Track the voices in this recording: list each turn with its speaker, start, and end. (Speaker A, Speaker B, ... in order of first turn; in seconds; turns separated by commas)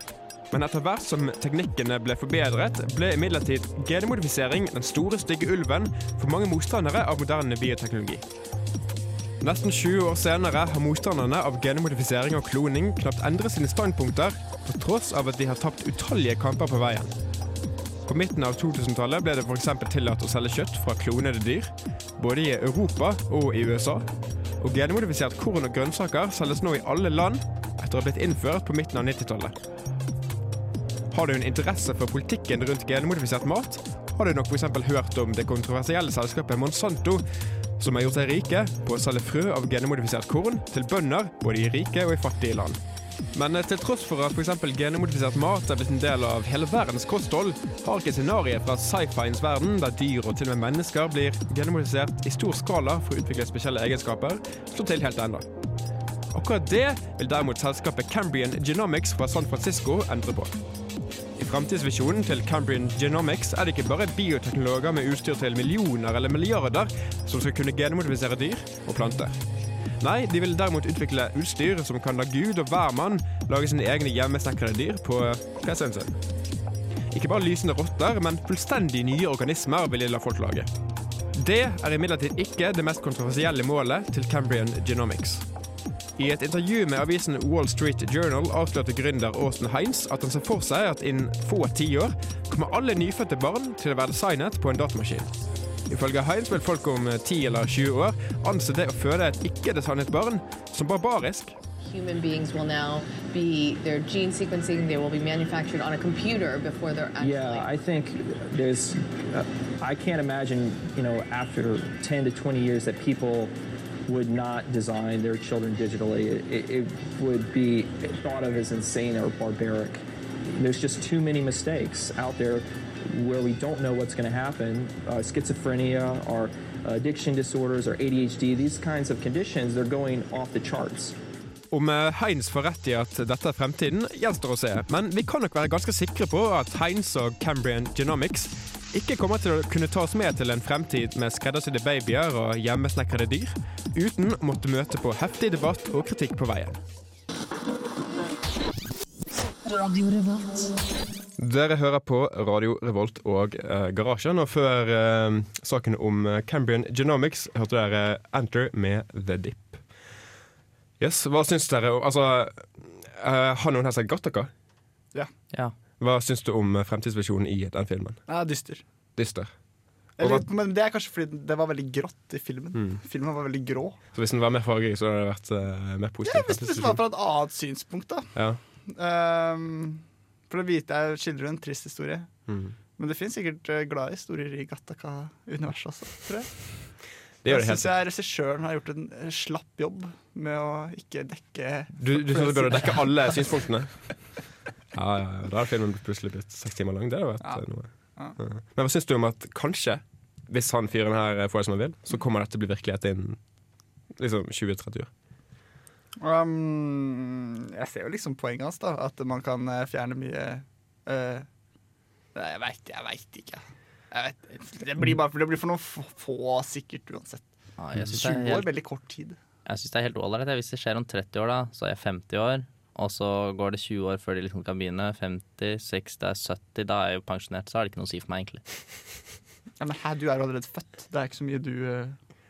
Speaker A: 0.5-8.3, Speaker A: 9.4-17.1, Speaker A: 18.1-24.1, Speaker A: 24.6-29.6, Speaker A: 31.1-37.2, Speaker A: 37.8-42.8, Speaker A: 43.3-55.5, Speaker A: 56.3-60.6, Speaker A: 61.4-69.4, Speaker A: 70.0-76.2, Speaker A: 77.1-80.7, Speaker A: 81.3-85.5, Speaker A: 86.2-95.3, Speaker A: 95.9-101.6, Speaker B: 101.8-107.7, Speaker C: 107.2-113.5, Speaker C: 114.1-120.0, Speaker C: 120.6-131.2, Speaker A: 131.7-146.8, Speaker A: 151.4-159.8, Speaker A: 161.0-164.5, Speaker A: 166.0-168.2, Speaker D: 168.3-168.8, Speaker A: 169.2-169.5, Speaker D: 170.2-174.0, Speaker A: 170.2-170.4, Speaker A: 174.1-177.0, Speaker D: 176.2-178.3, Speaker A: 178.3-178.6, Speaker D: 178.9-182.3, Speaker A: 182.5-182.8, Speaker D: 183.0-186.5, Speaker A: 187.4-187.9, Speaker D: 187.5-193.5, Speaker A: 192.0-193.9, Speaker A: 194.9-203.4, Speaker A: 204.2-205.1, Speaker D: 206.2-211.5, Speaker D: 212.3-217.5, Speaker E: 217.8-218.7, Speaker D: 218.0-219.4, Speaker E: 219.7-228.6, Speaker D: 229.8-232.2